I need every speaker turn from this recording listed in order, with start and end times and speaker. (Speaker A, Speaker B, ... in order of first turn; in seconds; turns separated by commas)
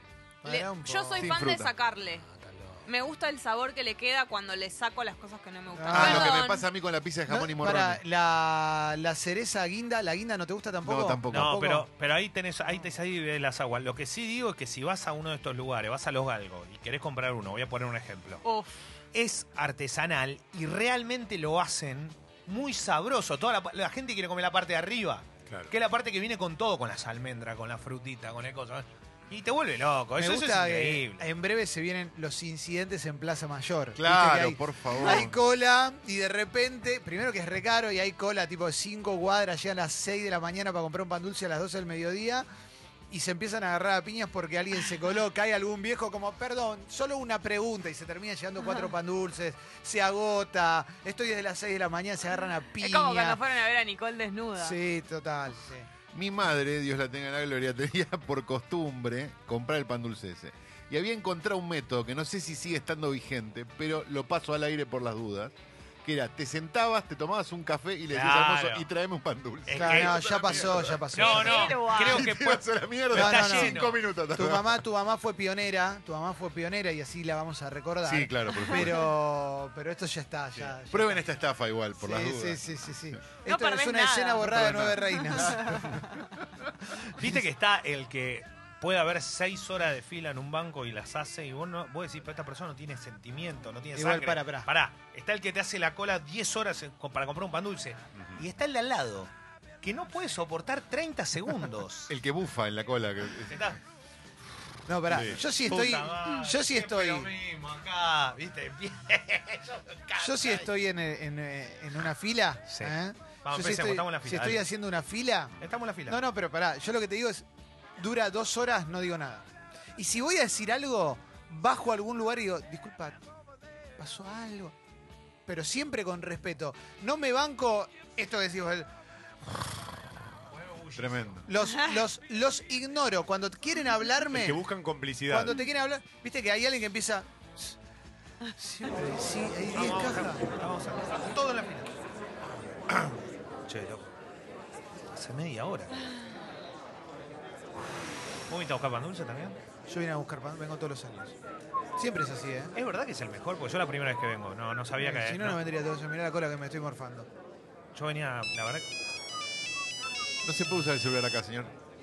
Speaker A: 0.4-1.3, Speaker B: 0.4-2.2, Speaker C: 1.2-1.7, Speaker D: 2.2-2.8, Speaker B: 2.8-6.7, Speaker A: 5.7-6.4, Speaker C: 5.9-8.0, Speaker A: 7.3-11.8, Speaker C: 10.8-11.6, Speaker D: 11.3-18.4, Speaker B: 18.4-18.8, Speaker D: 19.1-31.3, Speaker E: 25.4-25.7, Speaker A: 30.2-42.5, Speaker C: 34.0-35.4, Speaker A: 43.1-53.4, Speaker B: 48.6-48.9, Speaker B: 52.8-54.8, Speaker A: 54.6-55.9, Speaker C: 56.1-65.5, Speaker C: 66.0-71.0, Speaker D: 68.1-68.9, Speaker D: 69.7-74.0, Speaker A: 69.7-71.8, Speaker B: 71.1-72.2, Speaker C: 72.0-74.8, Speaker A: 73.1-81.2, Speaker C: 78.0-79.1, Speaker C: 80.7-82.6, Speaker A: 82.0-86.1, Speaker B: 83.4-86.1, Speaker D: 87.1-99.3, Speaker A: 93.9-94.7, Speaker D: 99.8-102.1, Speaker C: 102.1-103.7, Speaker D: 103.5-103.8, Speaker A: 104.9-107.3, Speaker E: 105.1-105.4, Speaker D: 105.5-110.7, Speaker A: 110.2-117.4, Speaker D: 112.7-114.6, Speaker D: 115.6-116.2, Speaker A: 118.0-119.4, Speaker A: 120.0-123.2, Speaker A: 124.0-124.7, Speaker A: 125.5-128.9, Speaker D: 130.6-131.3, Speaker C: 130.9-131.5, Speaker A: 131.5-134.7, Speaker E: 134.3-135.6, Speaker A: 135.3-137.8, Speaker A: 138.5-140.4, Speaker D: 139.7-141.9, Speaker D: 142.9-143.1, Speaker D: 143.7-144.1, Speaker D: 145.1-146.0, Speaker D: 148.5-149.6, Speaker A: 149.9-151.3, Speaker A: 152.0-152.7, Speaker D: 152.7-155.6, Speaker A: 154.9-157.3, Speaker D: 157.9-158.8, Speaker C: 160.4-161.7